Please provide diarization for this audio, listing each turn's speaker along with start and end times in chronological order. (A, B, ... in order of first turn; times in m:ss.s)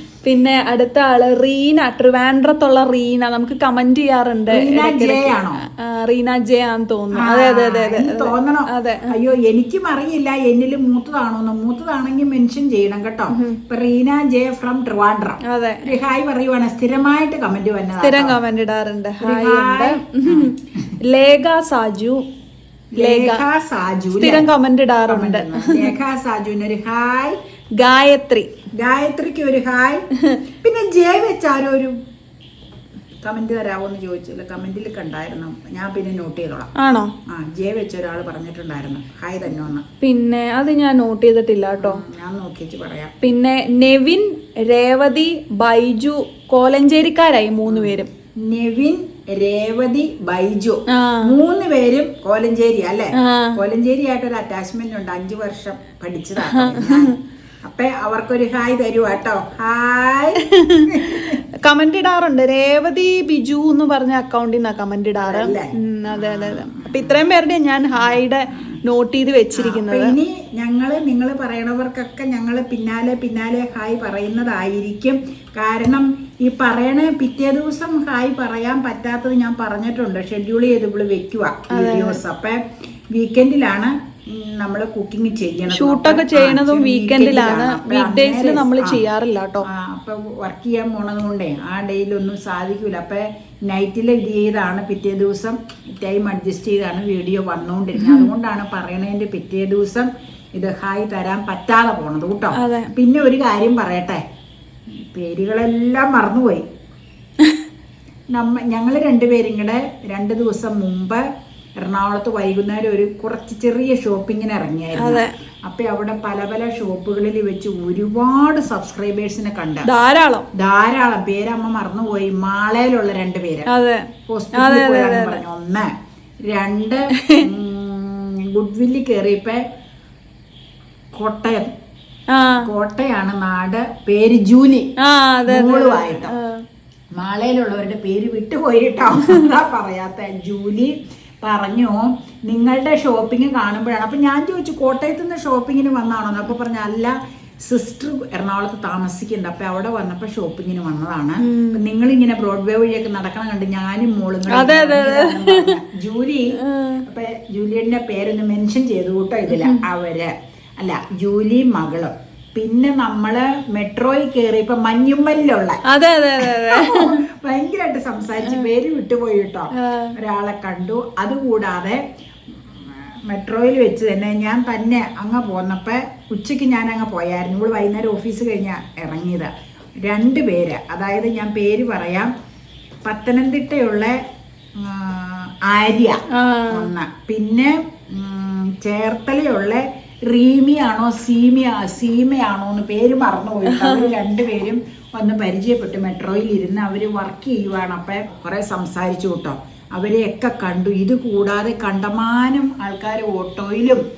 0:00.2-0:09.2 A
0:04.5-0:05.6 B
0:07.2-0:18.4 B
0:15.4-0:16.0 A
0:18.0-0:20.5 A
0:19.2-0:20.9 B
0:21.0-0:22.2 A
0:22.9-0:24.5 B
0:23.0-0:23.4 A
0:24.2-0:25.9 A
0:25.1-0:27.4 B
0:27.8-0:28.5 A
0:28.8-0:30.0 B
0:30.6-0:32.0 B
0:33.2-0:36.7 B
0:36.8-0:37.1 A
0:37.3-0:39.8 B
0:40.0-0:42.0 A
0:41.8-0:43.1 B
0:43.2-0:48.1 A
0:47.7-1:01.4 B
0:50.9-0:51.4 A
0:53.2-0:53.6 A
0:56.4-0:57.2 A
1:00.4-1:10.2 A
1:05.2-1:07.2 B
1:08.0-1:08.8 B
1:09.6-1:22.6 B
1:21.7-1:22.2 A
1:23.1-1:29.0 B
1:25.7-1:29.7 A
1:29.7-1:44.2 B
1:38.0-1:38.3 A
1:42.6-1:42.9 A
1:44.9-1:46.6 B
1:48.3-1:51.2 B
1:51.8-1:59.9 B
1:55.0-1:55.4 A
1:59.9-2:00.5 A
2:00.5-2:03.7 B
2:03.7-2:05.4 A
2:04.3-2:05.9 B
2:06.5-2:09.6 B
2:07.2-2:07.5 A
2:11.2-2:11.7 B
2:12.3-2:12.7 A
2:12.6-2:14.9 B
2:15.0-2:16.6 A
2:15.5-2:16.3 B
2:17.2-2:27.1 B
2:27.7-2:36.5 B
2:31.4-2:31.8 A
2:34.5-2:35.8 A
2:36.6-2:37.0 A
2:37.1-2:45.8 B
2:39.5-2:39.8 A
2:45.9-2:47.2 A
2:46.4-2:52.0 B
2:49.8-2:50.2 A
2:52.7-2:59.5 B
3:00.0-3:02.3 B
3:03.1-3:04.2 B
3:04.8-3:06.2 B
3:06.3-3:06.9 A
3:06.7-3:24.0 B
3:13.7-3:14.1 A